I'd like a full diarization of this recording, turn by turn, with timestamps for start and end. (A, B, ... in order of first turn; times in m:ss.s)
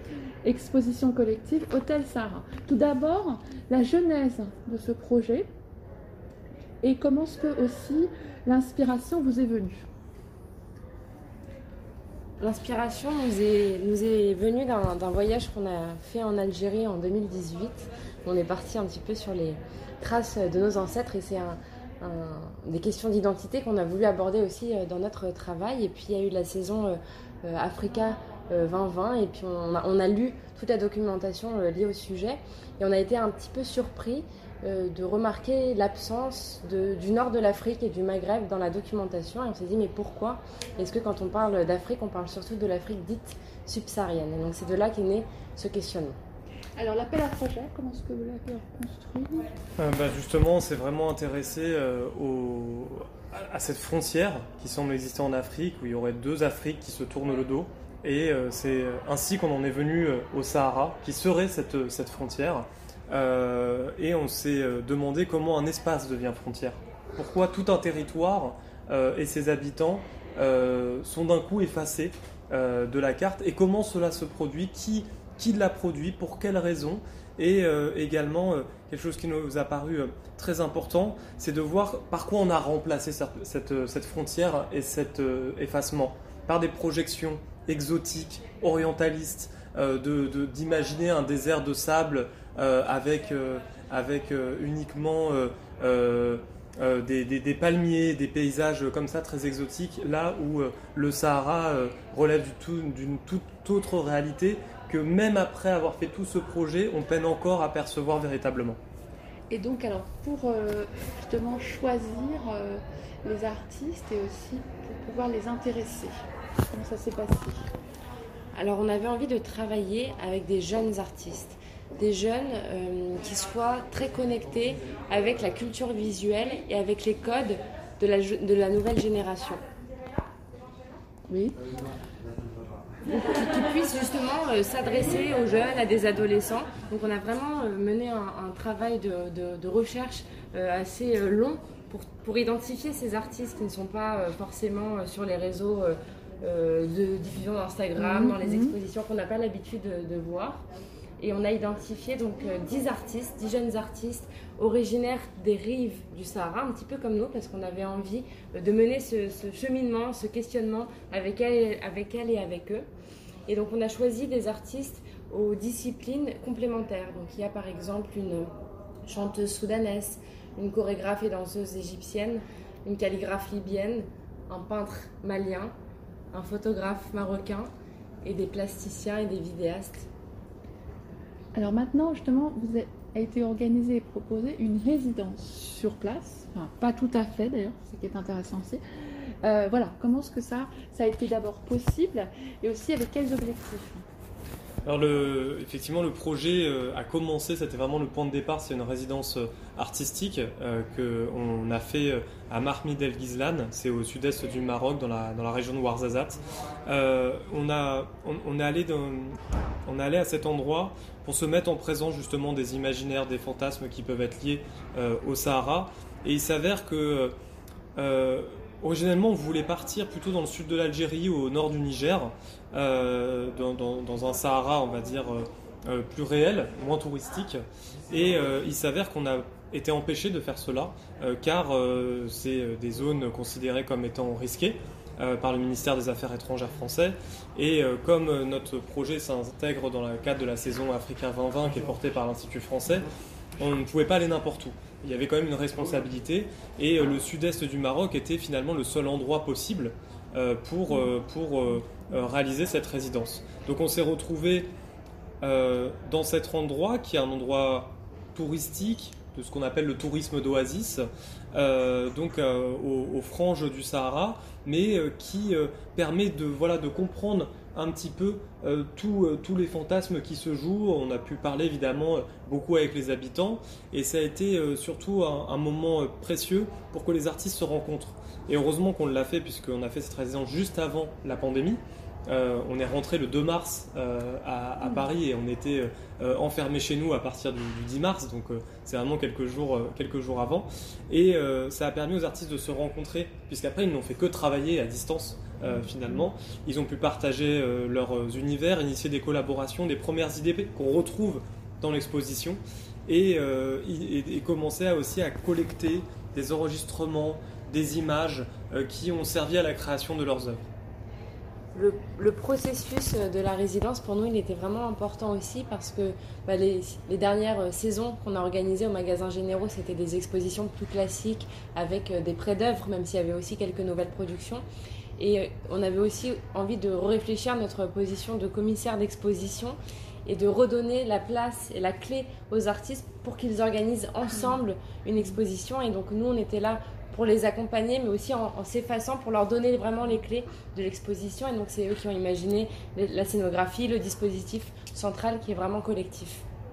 0:00.4-0:05.5 A
0:06.8-0:09.9 A
0:12.4-0:46.2 B
0:46.8-0:49.5 A
0:49.8-1:48.8 C
1:49.5-1:56.1 A
1:56.7-1:57.6 A
1:58.5-2:09.6 B
2:11.3-2:11.6 A
2:13.0-2:30.6 B
2:28.0-2:28.8 A
2:31.2-2:42.9 B
2:43.5-2:48.5 B
2:49.0-2:55.7 B
2:56.3-2:57.7 B
2:58.2-3:00.1 B
3:01.5-3:14.0 A
3:14.8-3:37.3 C
3:38.0-4:03.1 C
4:03.6-4:14.7 C
4:15.4-5:10.6 C
4:55.8-4:56.3 A
5:11.7-5:24.6 B
5:25.2-5:46.4 B